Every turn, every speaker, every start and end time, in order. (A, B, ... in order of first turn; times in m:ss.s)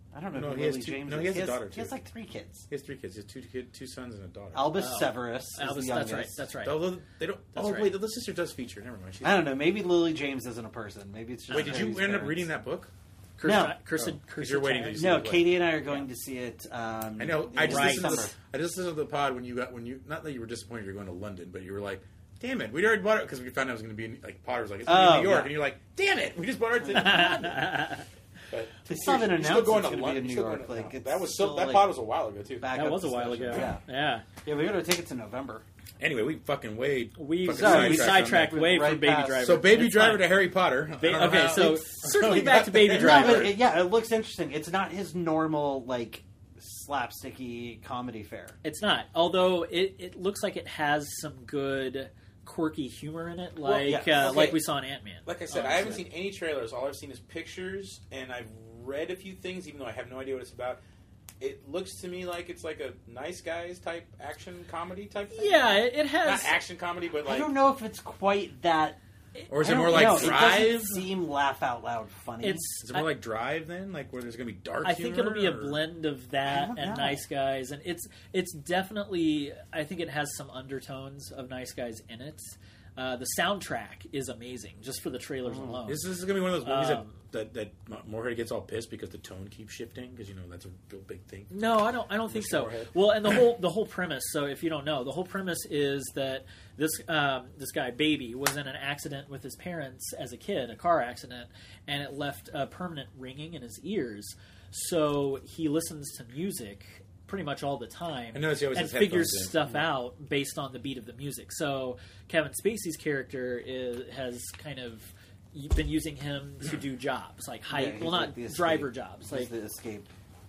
0:00.1-0:02.7 A
0:00.3-0:02.0 B
0:02.7-0:04.7 B
0:04.5-0:06.4 A
0:04.7-0:06.9 C
0:06.6-0:09.5 B
0:07.5-0:08.0 C
0:09.2-0:12.5 A
0:11.5-0:11.8 C
0:11.5-0:12.9 B
0:13.4-0:15.3 C
0:13.4-0:13.8 A
0:14.0-0:15.6 B
0:14.9-0:18.3 A
0:17.2-0:27.8 B
0:17.6-0:18.3 C
0:24.9-0:25.6 A
0:26.9-0:28.1 C
0:28.5-0:32.8 B
0:28.9-0:31.9 A
0:32.6-0:33.8 A
0:32.7-0:34.2 C
0:34.4-0:35.6 A
0:36.0-0:38.6 B
0:37.2-0:40.3 C
0:37.5-0:39.5 A
0:39.4-0:43.6 B
0:41.0-0:43.6 C
0:41.5-0:41.9 A
0:42.9-0:48.6 A
0:48.6-0:56.0 C
0:53.6-0:54.6 B
0:53.8-0:54.6 A
0:55.3-1:00.8 B
0:55.6-0:56.0 A
1:01.4-1:07.5 B
1:05.3-1:06.5 C
1:07.2-1:09.0 A
1:09.4-1:10.9 C
1:09.5-1:11.0 B
1:09.6-1:12.7 A
1:12.4-1:13.1 C
1:12.8-1:15.8 B
1:14.8-1:26.0 C
1:16.5-1:17.2 A
1:25.5-1:25.8 A
1:25.9-1:31.6 B
1:26.6-1:27.2 C
1:31.5-1:59.5 C
1:32.3-1:33.4 B
1:48.3-1:49.6 B
1:57.7-2:00.1 A